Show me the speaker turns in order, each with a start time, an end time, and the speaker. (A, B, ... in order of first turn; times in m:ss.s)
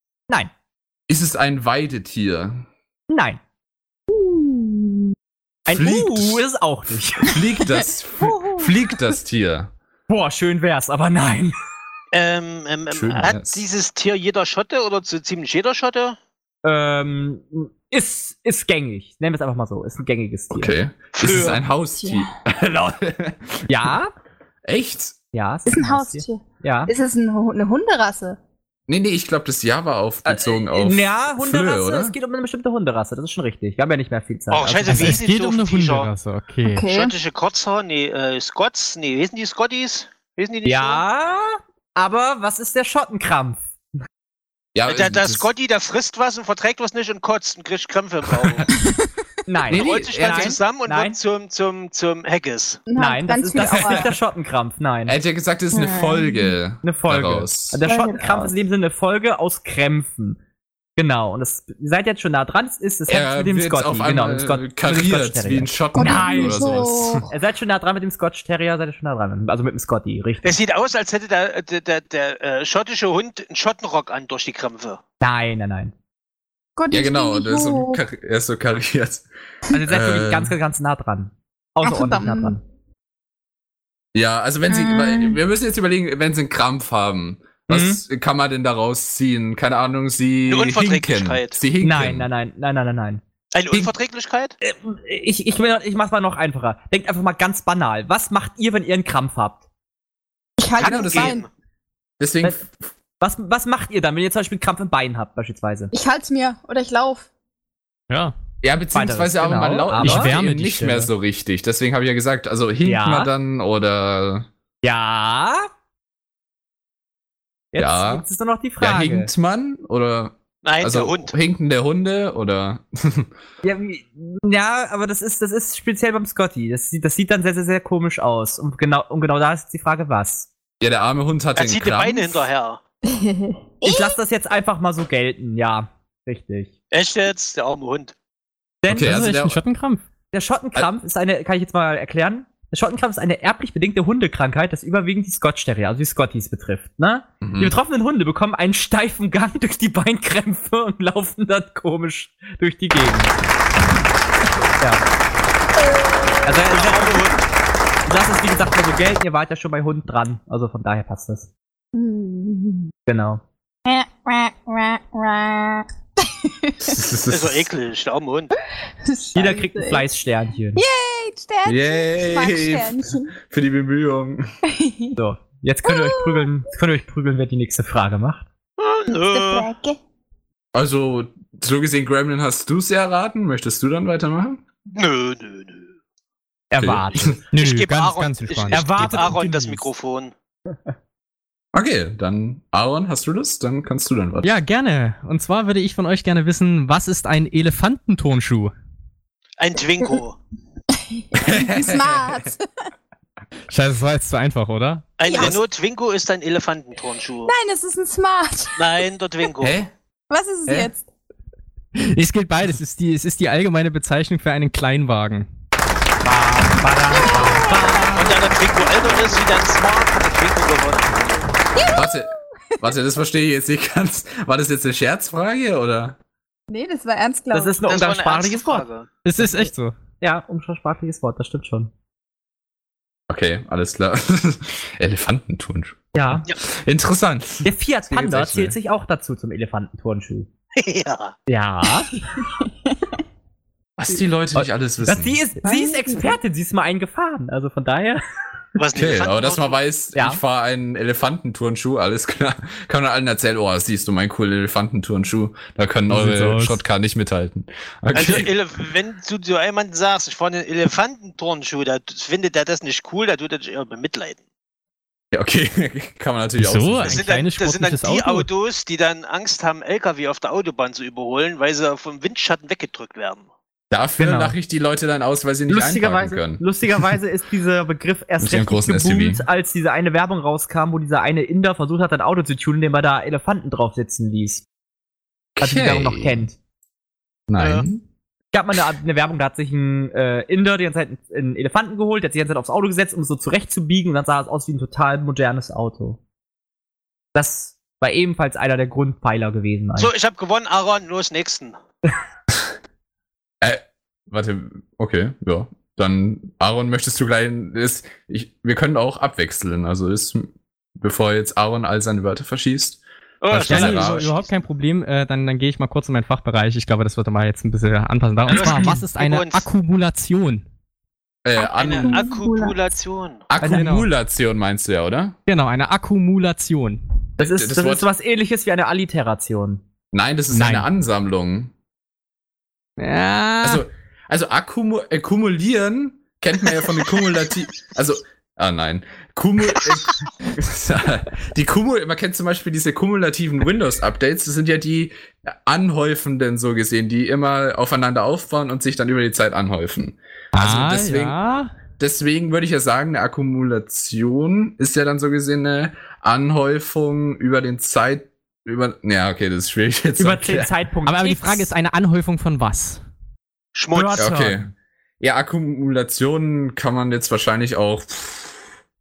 0:01.1-0:02.6 A
0:03.1-0:03.4 B
0:04.1-0:05.0 C
0:05.7-0:07.3 B
0:05.7-0:06.4 A
0:07.3-0:09.7 A
0:08.2-0:08.7 C
0:10.1-0:11.5 B
0:12.1-0:16.2 D
0:12.9-0:13.6 A
0:16.6-0:20.7 B
0:20.5-0:23.9 A
0:21.1-0:21.6 D
0:22.0-0:22.3 C
0:23.7-0:24.1 B
0:24.6-0:25.2 A
0:25.3-0:26.9 B
0:25.6-0:28.4 C
0:28.9-0:32.2 A
0:30.2-0:35.2 B
0:34.5-0:36.1 D
0:34.9-0:36.9 E
0:36.6-0:37.1 C
0:36.9-0:41.0 D
0:40.6-0:43.7 B
0:44.7-0:45.5 A
0:44.9-0:48.6 D
0:48.4-0:48.7 A
0:49.5-0:51.2 B
0:49.7-0:50.6 A
0:49.7-0:52.8 D
0:52.9-0:54.1 C
0:53.0-0:55.1 B
0:53.6-0:54.1 A
0:55.1-0:57.8 A
0:55.7-0:56.5 C
0:56.8-1:00.4 B
0:57.8-0:58.5 C
1:01.0-1:10.6 B
1:03.1-1:07.3 A
1:05.9-1:07.3 C
1:10.4-1:15.0 D
1:15.2-1:15.9 B
1:16.8-1:18.0 C
1:16.9-1:19.2 A
1:19.7-1:22.6 B
1:19.8-1:20.5 A
1:21.8-1:22.6 C
1:24.1-1:32.3 A
1:24.7-1:25.4 C
1:27.7-1:28.0 B
1:30.5-1:31.6 D
1:31.8-1:33.9 B
1:33.5-1:34.5 D
1:34.6-1:39.6 B
1:40.6-1:41.4 C
1:40.8-1:41.4 A
1:40.8-1:41.5 D
1:42.2-1:42.9 A
1:43.2-1:45.9 B
1:45.9-1:47.3 C
1:48.6-1:54.5 A
1:48.9-1:50.3 B
1:50.0-1:51.1 E
1:52.8-1:53.3 B
1:54.8-1:55.7 B
1:57.7-1:59.3 B
1:57.8-1:58.2 A
1:58.8-2:03.3 A
2:00.6-2:01.3 D
2:03.6-2:10.5 B
2:10.8-2:12.5 A
2:11.6-2:12.8 D
2:13.1-2:14.2 C
2:13.8-2:16.7 B
2:16.9-2:18.1 D
2:18.8-2:19.2 B
2:18.9-2:19.6 A
2:18.9-2:20.0 E
2:20.3-2:33.4 B
2:27.4-2:27.8 A
2:36.4-2:37.2 B
2:36.7-2:37.4 D
2:38.1-2:41.5 B
2:41.9-2:42.9 C
2:43.0-2:43.4 B
2:43.8-2:46.9 C
2:46.8-2:47.7 A
2:47.3-2:48.6 D
2:49.0-2:50.0 C
2:49.3-2:50.8 B
2:50.7-2:53.3 C
2:51.6-2:54.4 A
2:54.7-2:55.2 C
2:55.2-2:58.4 B
2:55.9-2:56.5 C
2:58.8-2:59.7 D
2:59.1-3:00.0 C
3:00.7-3:04.6 A
3:04.9-3:05.9 D
3:06.7-3:07.3 B
3:06.8-3:07.4 A
3:07.5-3:09.8 E
3:07.6-3:10.3 D
3:08.7-3:09.5 B
3:11.7-3:14.6 A
3:14.4-3:18.7 E
3:19.6-3:20.4 D
3:21.0-3:22.6 C
3:21.3-3:22.5 A
3:23.7-3:25.1 E
3:25.2-3:27.5 D
3:25.2-3:25.6 C
3:27.4-3:28.8 C
3:28.8-3:29.8 D
3:29.6-3:29.9 A
3:30.3-3:31.0 C
3:32.0-3:35.5 E
3:36.2-3:38.4 B
3:37.1-3:39.4 C
3:38.1-3:41.4 D
3:41.7-3:42.3 C
3:41.9-3:46.2 A
3:46.7-3:47.8 C
3:47.5-3:48.9 B
3:47.9-3:49.1 D
3:49.2-3:49.9 E
3:50.2-3:51.9 B
3:53.3-3:58.8 A
3:56.1-3:56.5 B
3:57.6-4:00.5 B
4:00.8-4:01.4 D
4:01.5-4:02.2 B
4:02.4-4:02.9 C
4:04.0-4:05.4 A
4:04.5-4:08.2 B
4:05.6-4:06.4 C
4:08.8-4:09.8 D
4:08.9-4:18.5 A
4:10.1-4:10.4 B
4:16.1-4:16.8 E
4:18.1-4:24.4 D
4:25.3-4:27.2 A
4:26.6-4:28.5 E
4:27.0-4:33.5 D
4:33.9-4:36.7 A
4:34.2-4:34.5 B
4:35.7-4:44.6 B
4:38.4-4:39.4 A
4:45.6-4:46.4 A
4:45.6-4:46.6 B
4:47.5-4:48.0 A
4:47.6-4:47.8 D
4:48.5-4:56.2 B
4:57.3-5:00.1 B
5:00.0-5:01.8 D
5:03.6-5:10.5 A
5:11.0-5:14.3 A
5:13.4-5:14.5 D
5:13.6-5:20.6 E
5:18.5-5:19.0 B
5:18.5-5:19.6 D
5:21.4-5:22.3 A
5:21.6-5:22.9 C
5:21.7-5:23.4 D
5:23.5-5:25.4 A
5:23.6-5:23.9 B
5:23.7-5:24.1 E
5:25.5-5:27.0 E
5:27.4-5:29.8 B
5:27.4-5:28.1 A
5:30.1-5:31.7 A
5:30.5-5:30.9 E
5:33.0-5:33.8 E
5:33.6-5:51.4 A
5:50.5-5:51.7 E
5:52.0-6:00.7 A
6:00.2-6:01.7 B
6:01.0-6:03.0 E
6:03.7-6:04.3 D
6:03.9-6:04.7 B
6:04.2-6:08.6 A